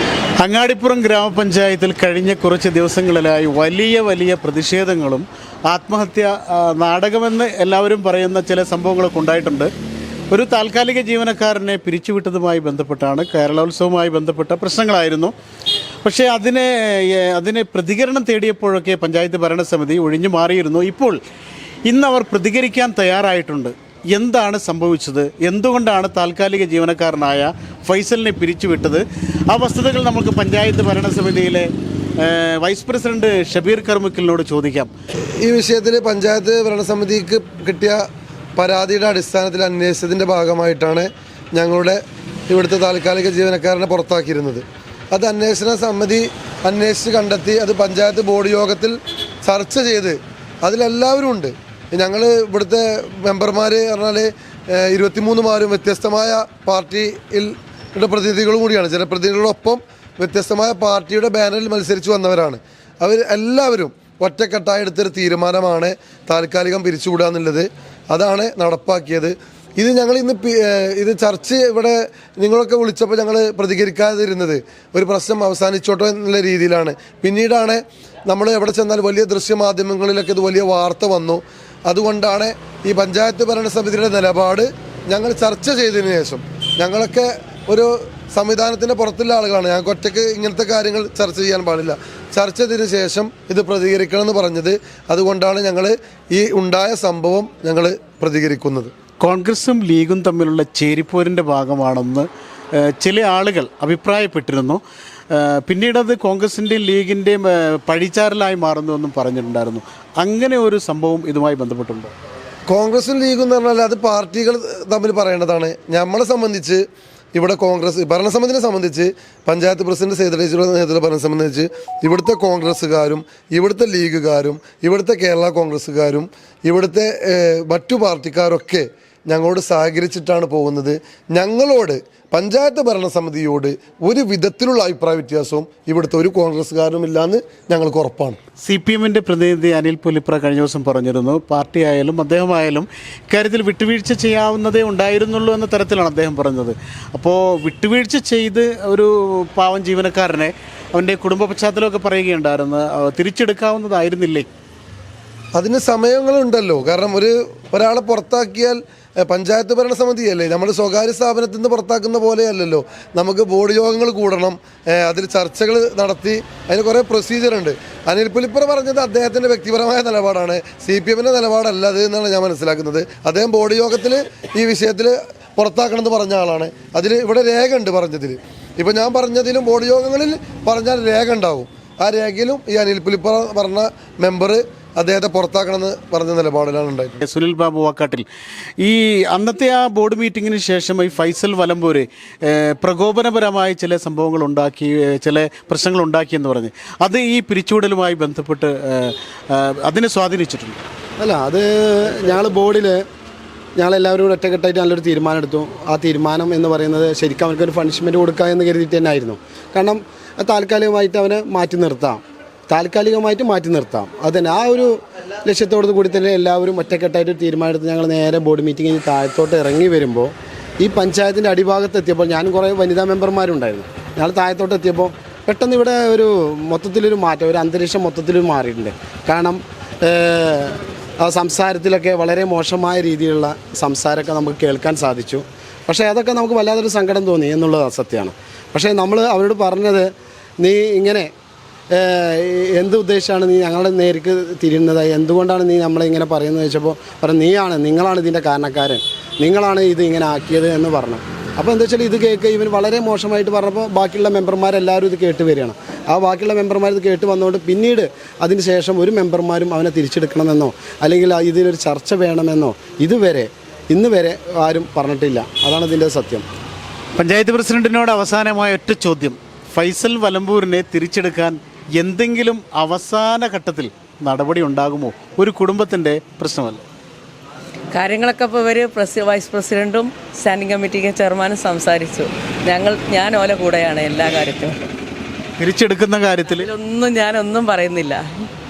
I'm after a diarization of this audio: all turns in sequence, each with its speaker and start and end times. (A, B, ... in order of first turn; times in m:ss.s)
0:00.4-0:09.7 A
0:10.3-0:15.3 A
0:16.0-0:21.2 A
0:21.9-0:31.7 A
0:32.2-0:34.9 A
0:35.4-0:38.0 B
0:38.6-0:42.0 B
0:42.5-1:38.9 B
1:39.2-1:44.8 A
1:45.3-1:52.1 A
1:52.7-2:18.4 B
2:18.6-2:34.5 A
2:35.6-3:07.2 B
3:07.2-3:08.3 A
3:08.8-3:20.8 A
3:21.2-3:23.0 C
3:23.8-3:32.2 C
3:32.7-3:34.9 C
3:35.5-3:40.3 C
3:40.8-3:49.6 C
3:50.1-3:50.7 C
3:51.3-4:00.0 C
4:00.6-4:01.2 C
4:02.0-4:26.4 C
4:27.2-4:36.8 A
4:37.9-4:44.8 D
4:45.6-4:46.7 A
4:46.6-4:48.5 D